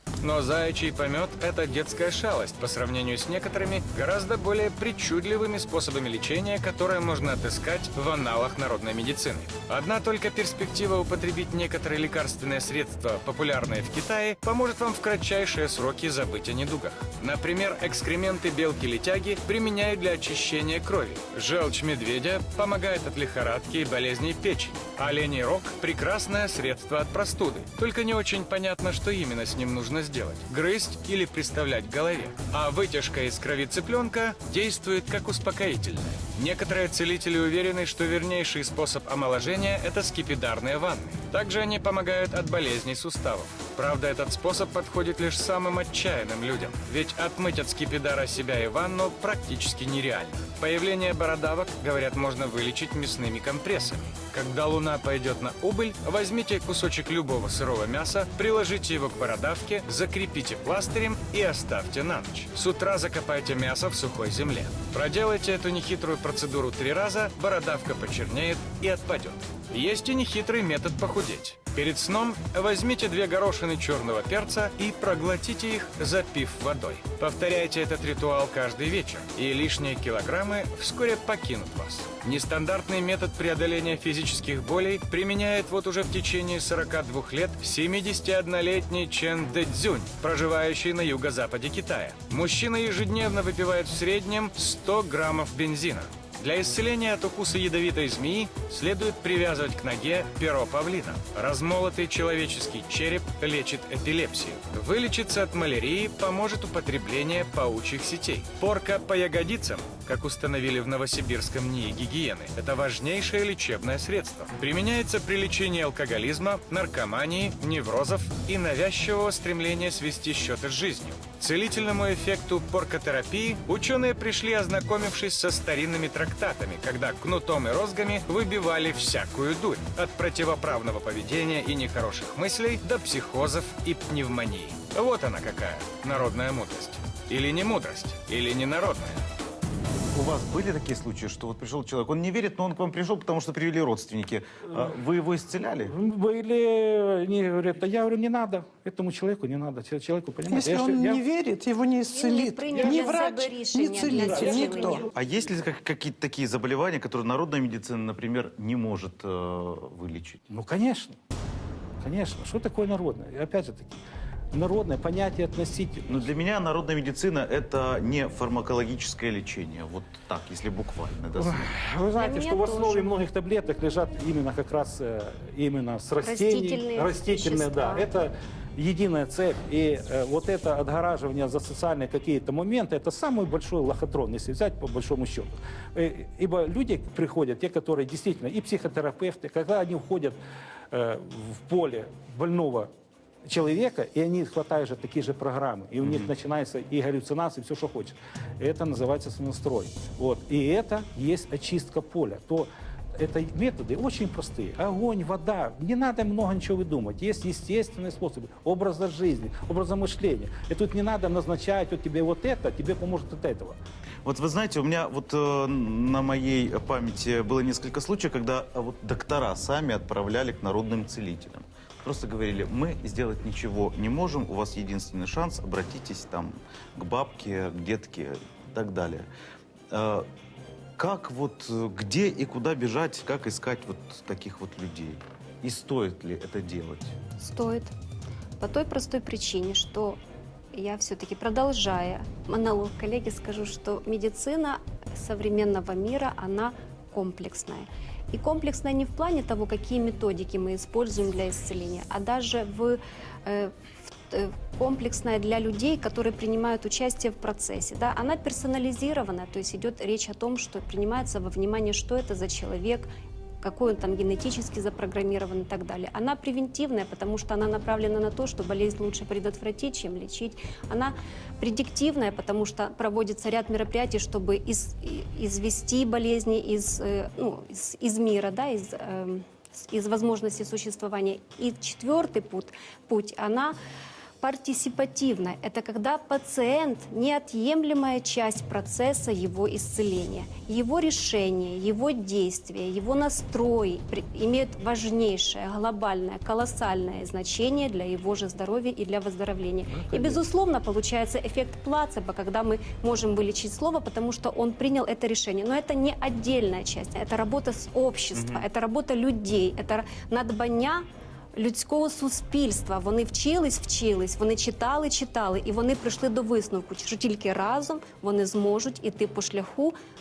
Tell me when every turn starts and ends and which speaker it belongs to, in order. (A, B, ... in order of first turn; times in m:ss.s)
0:00.2-2:19.2 A
2:20.1-2:25.9 B
2:25.9-2:31.2 C
2:30.5-2:35.1 D
2:32.1-2:35.1 E
2:34.1-2:35.0 C
2:35.1-2:40.4 B
2:40.5-2:41.2 C
2:42.0-2:46.3 C
2:46.1-2:51.7 B
2:51.3-3:10.4 C
2:52.2-2:53.1 E
2:56.2-2:58.1 E
3:10.9-3:12.9 C
3:13.4-3:33.8 C
3:16.0-3:16.3 B
3:34.2-3:49.3 B
3:49.9-3:50.3 B
3:51.0-3:57.1 B
3:57.4-3:57.9 E
3:58.6-4:00.2 E
4:00.7-4:13.7 E
4:14.3-4:23.1 E
4:23.6-4:43.8 E
4:44.4-5:19.9 E
4:59.9-5:00.4 C
5:08.3-5:08.6 B